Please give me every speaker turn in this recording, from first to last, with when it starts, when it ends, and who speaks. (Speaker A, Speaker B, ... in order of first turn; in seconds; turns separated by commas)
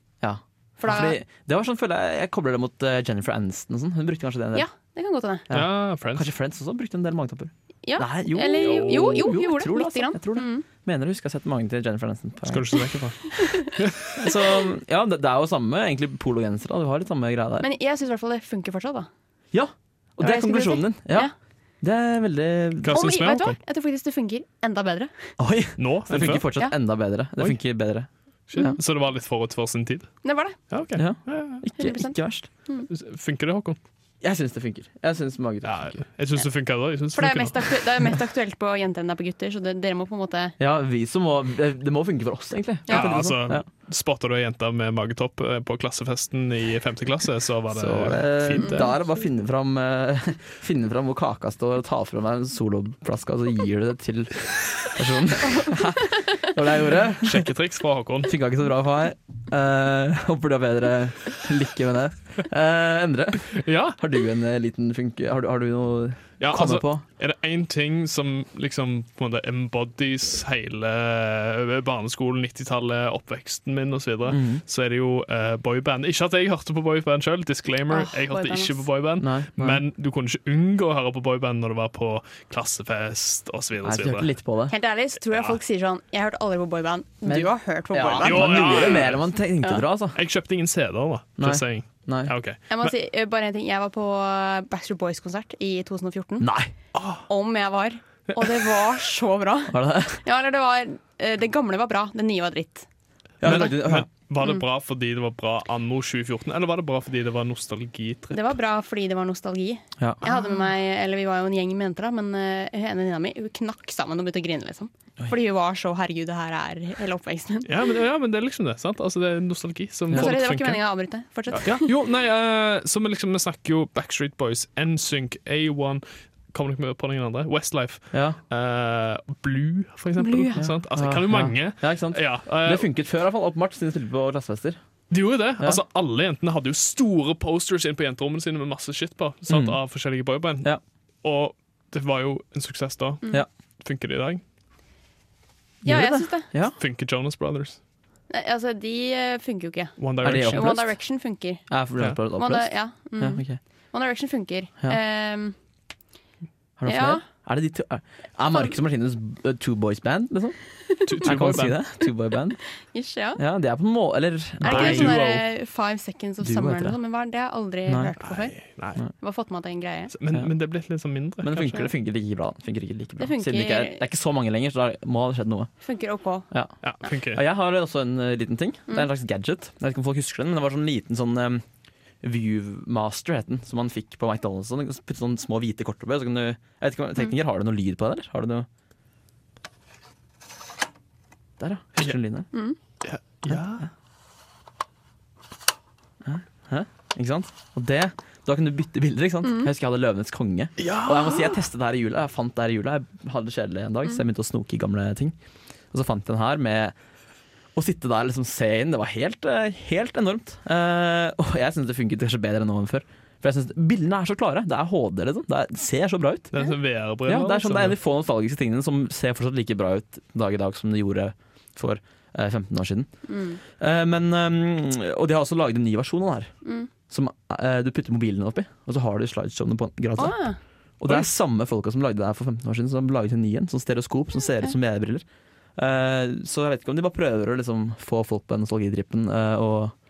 Speaker A: 0.2-4.7, Speaker B: 0.8-1.2, Speaker B: 4.5-5.5, Speaker A: 5.5-13.0, Speaker C: 5.5-6.3, Speaker B: 7.8-10.7, Speaker C: 8.6-9.2, Speaker C: 12.5-14.1, Speaker B: 13.4-13.7, Speaker A: 14.1-17.7, Speaker B: 17.6-19.1, Speaker A: 19.5-23.0, Speaker B: 20.2-21.3, Speaker C: 22.8-23.6, Speaker B: 22.9-25.2, Speaker A: 25.4-28.8, Speaker C: 25.8-26.5, Speaker C: 28.5-31.6, Speaker B: 30.2-30.6, Speaker A: 30.9-32.5, Speaker B: 31.8-32.9, Speaker C: 32.9-33.8, Speaker A: 34.2-36.0, Speaker C: 35.6-37.7, Speaker B: 37.1-40.5, Speaker A: 40.6-43.6, Speaker B: 42.9-43.1, Speaker C: 42.9-48.9, Speaker A: 47.7-57.5, Speaker C: 57.2-58.3, Speaker A: 58.2-67.0, Speaker C: 63.6-64.0, Speaker C: 66.4-84.3, Speaker A: 74.3-74.6, Speaker B: 77.9-78.8, Speaker A: 79.2-79.8, Speaker A: 83.8-84.7, Speaker B: 84.7-89.0, Speaker C: 85.3-85.6, Speaker A: 87.2-90.2, Speaker C: 88.2-89.3, Speaker C: 90.1-92.9, Speaker A: 91.4-92.4, Speaker B: 92.7-96.5, Speaker A: 96.4-96.7, Speaker C: 97.0-97.2, Speaker B: 97.3-102.8, Speaker A: 99.7-100.2, Speaker A: 103.4-104.1, Speaker C: 103.4-108.5, Speaker B: 108.3-117.7, Speaker C: 117.7-120.8, Speaker B: 120.1-121.9, Speaker C: 121.5-132.8, Speaker A: 128.1-128.4, Speaker B: 130.2-130.6, Speaker A: 130.6-134.8, Speaker C: 135.1-140.7, Speaker A: 139.5-139.8, Speaker C: 141.2-143.2, Speaker C: 143.8-144.4, Speaker B: 145.8-146.5, Speaker A: 145.8-146.8, Speaker C: 146.8-147.8, Speaker B: 148.3-151.6, Speaker C: 150.0-150.8, Speaker A: 150.2-150.9, Speaker A: 151.7-153.6, Speaker B: 152.3-155.6, Speaker A: 156.8-162.6, Speaker B: 156.9-157.2, Speaker C: 161.1-161.8, Speaker B: 162.9-163.4, Speaker A: 163.3-165.2, Speaker B: 164.6-168.6, Speaker C: 164.6-165.4, Speaker A: 166.4-167.0, Speaker A: 167.9-168.1, Speaker C: 168.2-169.0, Speaker B: 169.2-170.1, Speaker C: 170.1-171.9, Speaker A: 171.4-175.7, Speaker B: 173.2-174.0, Speaker B: 175.8-176.5, Speaker C: 176.8-177.4, Speaker A: 177.2-181.6, Speaker A: 182.2-188.7, Speaker A: 191.6-192.5, Speaker C: 193.0-193.9, Speaker A: 193.5-193.9, Speaker A: 196.2-205.3, Speaker B: 199.4-199.7, Speaker C: 200.8-201.5, Speaker A: 205.9-206.9, Speaker A: 207.7-216.5, Speaker C: 216.5-218.0, Speaker A: 217.2-223.1, Speaker B: 223.3-223.6, Speaker A: 223.7-226.5, Speaker B: 226.6-226.9, Speaker A: 227.1-235.2, Speaker B: 230.2-230.6, Speaker A: 235.8-239.9